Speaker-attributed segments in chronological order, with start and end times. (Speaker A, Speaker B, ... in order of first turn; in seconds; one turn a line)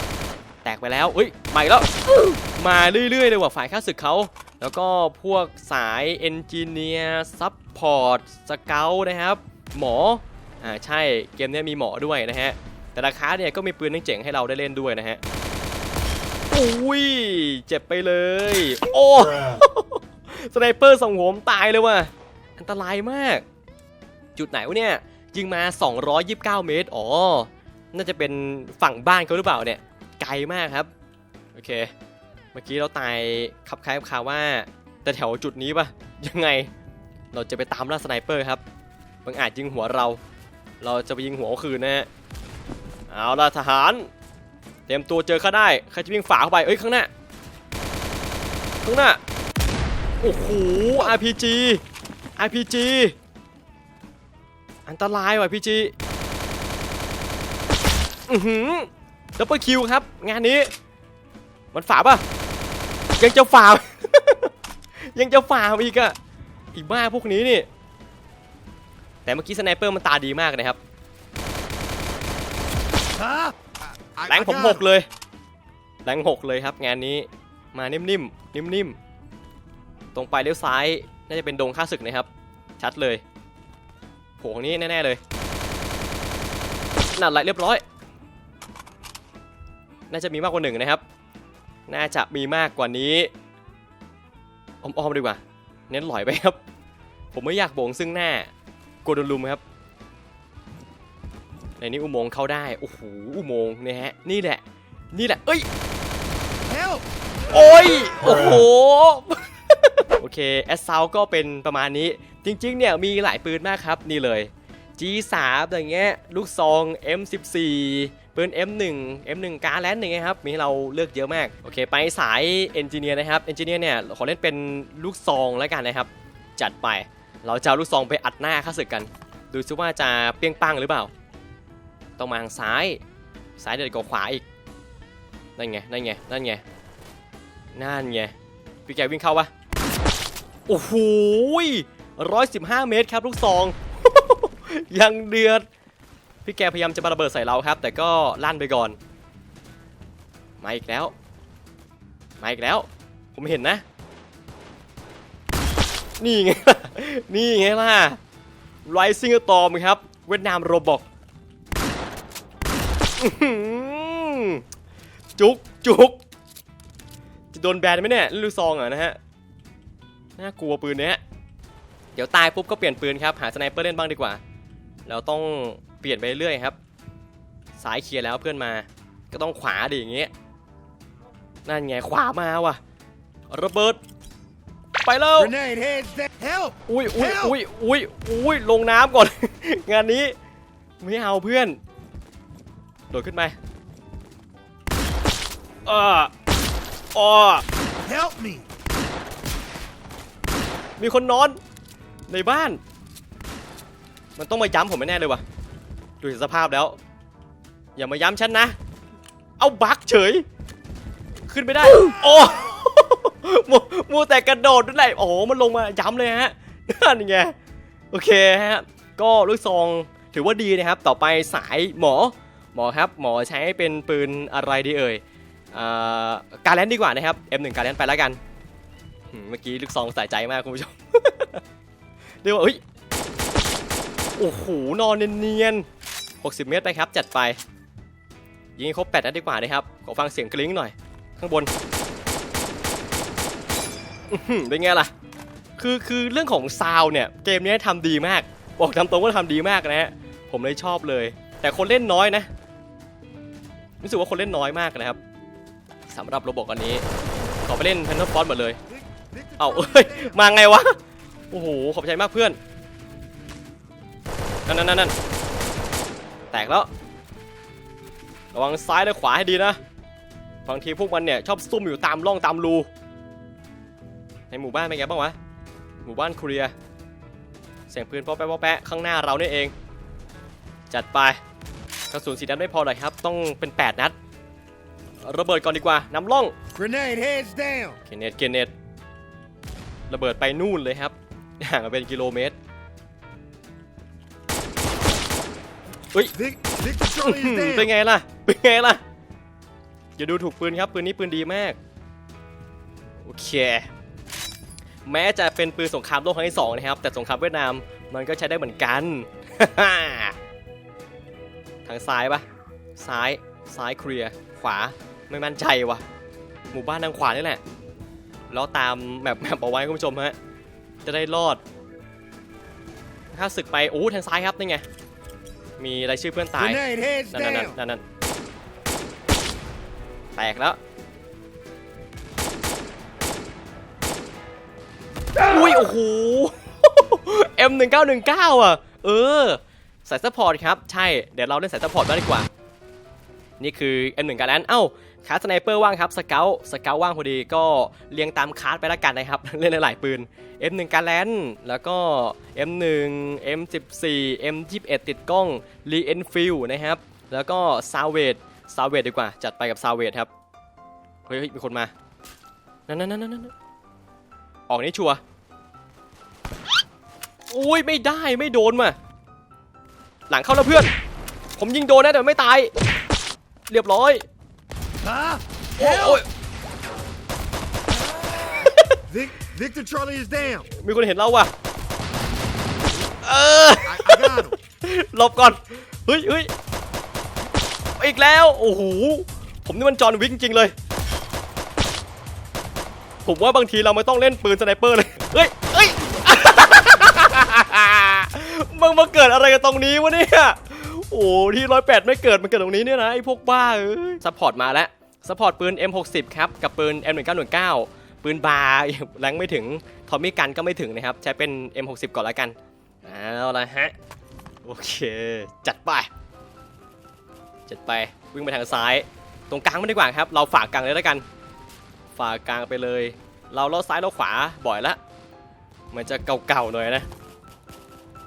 Speaker A: 0.6-15.2
Speaker A: 16.5-23.4
Speaker A: 24.4-30.9
Speaker A: 31.5-31.9
Speaker A: 32.5-36.7
Speaker A: 37.3-38.6
Speaker A: 39.2-40.2
Speaker A: 40.8-42.1
Speaker A: 43.1-44.1
Speaker A: 44.9-47.1
Speaker A: 48.8-49.2
Speaker A: 50.2-51.8
Speaker A: 52.4-53.1
Speaker A: 54.9-55.9
Speaker A: 58.3-60.7
Speaker A: 61.7-62.2
Speaker A: 63.2-64.5
Speaker A: 65.1-66.2
Speaker A: 66.7-67.7
Speaker A: 69.2-70.8
Speaker B: 73.1-73.5
Speaker B: 74.0-74.8
Speaker A: 74.3-75.1
Speaker A: 76.0-79.0
Speaker A: 80.1-82.3
Speaker A: 82.8-83.2
Speaker A: 84.4-85.2
Speaker A: 87.1-87.8
Speaker A: 90.1-91.0
Speaker A: 91.9-93.3
Speaker A: 94.8-96.6
Speaker A: 97.3-98.5
Speaker A: 99.0-99.6
Speaker A: 101.8-104.6
Speaker A: 105.1-105.7
Speaker B: 106.7-107.0
Speaker A: 107.5-131.1
Speaker A: 132.2-133.0
Speaker A: 133.6-134.4
Speaker A: 135.6-136.6
Speaker A: 137.7-138.3
Speaker A: 138.8-139.5
Speaker A: 140.7-145.6
Speaker A: 146.4-149.0
Speaker A: 150.6-151.1
Speaker A: 152.4-153.8
Speaker A: 156.2-158.2
Speaker A: 158.8-161.0
Speaker A: 163.2-164.6
Speaker A: 165.3-166.2
Speaker A: 167.5-169.2
Speaker A: 170.4-171.2
Speaker A: 172.1-174.4
Speaker A: 175.1-176.8
Speaker A: 177.8-180.3
Speaker A: 181.7-182.8
Speaker A: 183.5-184.0
Speaker A: 185.0-185.5
Speaker B: 185.4-187.5
Speaker A: 186.9-190.3
Speaker A: 191.0-191.8
Speaker A: 193.1-193.5
Speaker A: 195.8-196.3
Speaker A: 197.1-197.6
Speaker B: 198.0-198.7
Speaker A: 201.0-201.6
Speaker A: 202.3-202.8
Speaker A: 204.3-205.4
Speaker A: 206.2-207.0
Speaker A: 207.9-208.7
Speaker A: 209.6-210.4
Speaker A: 211.5-217.5
Speaker A: 218.1-228.4
Speaker A: 229.3-231.6
Speaker A: 232.4-232.8
Speaker A: 234.4-235.8
Speaker A: 236.4-237.6
Speaker A: 238.8-241.7
Speaker A: 244.3-245.1
Speaker A: 245.8-252.5
Speaker A: 254.0-255.2
Speaker A: 256.1-257.0
Speaker A: 257.6-258.8
Speaker B: 259.0-260.3
Speaker A: 259.6-260.9
Speaker A: 261.5-262.6
Speaker A: 264.6-265.1
Speaker A: 266.5-266.9
Speaker A: 268.5-269.8
Speaker A: 270.6-272.9
Speaker A: 274.5-275.3
Speaker A: 276.0-276.7
Speaker A: 277.9-279.7
Speaker A: 280.9-281.4
Speaker A: 282.1-284.1
Speaker A: 285.2-286.5
Speaker B: 286.7-288.0
Speaker A: 288.1-288.7
Speaker A: 290.1-292.6
Speaker B: 296.3-297.9
Speaker A: 297.2-299.0
Speaker A: 300.2-301.8
Speaker A: 303.2-303.9
Speaker A: 305.0-310.4
Speaker A: 311.9-312.4
Speaker A: 313.0-316.0
Speaker A: 316.7-317.6
Speaker A: 318.5-320.3
Speaker A: 321.0-321.6
Speaker A: 323.3-324.8
Speaker A: 325.8-328.0
Speaker B: 326.6-327.8
Speaker A: 330.4-330.8
Speaker A: 335.4-342.5
Speaker A: 343.6-360.3
Speaker A: 361.2-361.9
Speaker A: 362.9-363.5
Speaker A: 364.7-365.2
Speaker A: 367.5-368.9
Speaker A: 370.3-370.9
Speaker A: 371.6-372.7
Speaker A: 373.7-374.2
Speaker B: 375.0-376.2
Speaker A: 375.8-376.2
Speaker A: 378.4-379.0
Speaker B: 379.1-380.7
Speaker A: 380.7-381.5
Speaker A: 383.1-386.5
Speaker B: 383.9-384.5
Speaker A: 388.0-390.7
Speaker A: 393.2-413.9
Speaker A: 414.6-416.1
Speaker A: 417.7-421.2
Speaker A: 422.1-425.0
Speaker A: 425.9-427.1